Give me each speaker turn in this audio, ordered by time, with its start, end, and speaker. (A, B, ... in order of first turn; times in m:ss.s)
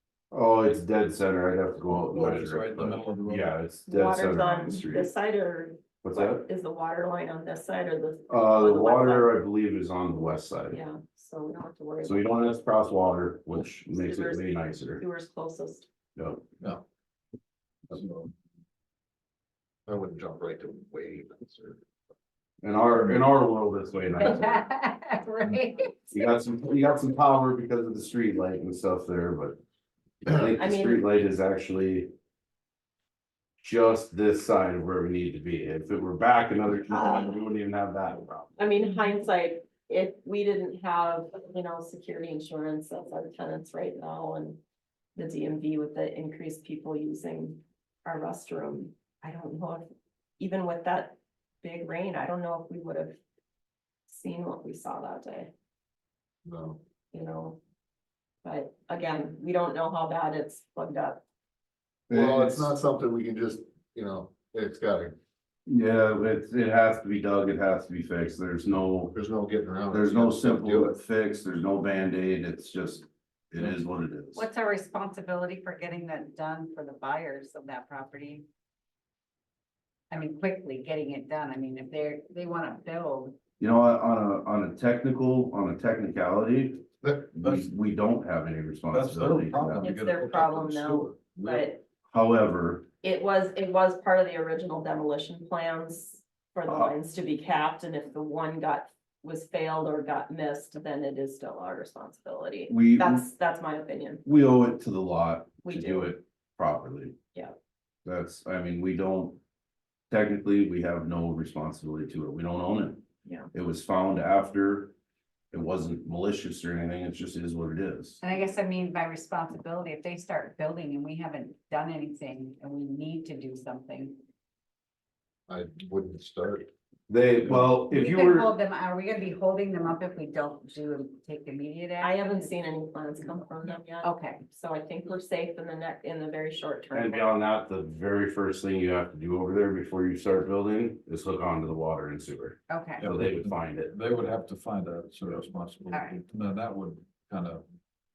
0:00.3-0:05.1 A
0:02.1-0:03.6 B
0:03.9-0:09.4 C
0:06.0-0:06.4 A
0:08.3-0:10.8 A
0:10.7-0:12.4 C
0:12.0-0:15.0 A
0:13.9-0:15.9 C
0:16.2-0:16.4 A
0:17.9-0:18.3 B
0:19.9-0:21.8 D
0:22.6-0:24.6 A
0:24.1-0:26.3 E
0:26.1-0:29.6 A
0:30.2-0:32.1 A
0:30.6-0:31.0 C
0:33.6-0:38.5 A
0:36.9-0:37.4 C
0:38.6-0:44.6 C
0:45.2-0:49.9 C
0:50.4-0:53.2 C
0:54.1-0:55.5 C
0:56.4-0:56.8 D
0:57.1-0:57.6 C
0:58.4-1:01.2 C
1:02.1-1:02.8 A
1:02.1-1:05.1 D
1:05.6-1:09.1 A
1:09.1-1:11.0 D
1:09.9-1:14.4 A
1:14.3-1:18.4 E
1:20.1-1:23.4 E
1:23.6-1:29.9 A
1:27.0-1:27.7 B
1:28.9-1:31.7 B
1:29.8-1:31.8 C
1:32.0-1:32.9 A
1:33.0-1:44.2 C
1:36.7-1:36.9 A
1:42.7-1:43.2 A
1:44.2-1:47.2 A
1:45.6-1:46.1 C
1:48.0-1:49.4 A
1:50.1-1:54.9 A
1:55.5-1:58.2 A
1:58.2-2:04.2 E
2:05.5-2:06.7 D
2:07.1-2:08.5 A
2:07.8-2:12.6 E
2:12.0-2:17.3 C
2:14.0-2:14.4 E
2:16.9-2:23.9 A
2:22.7-2:23.1 E
2:23.0-2:27.6 B
2:25.9-2:26.2 E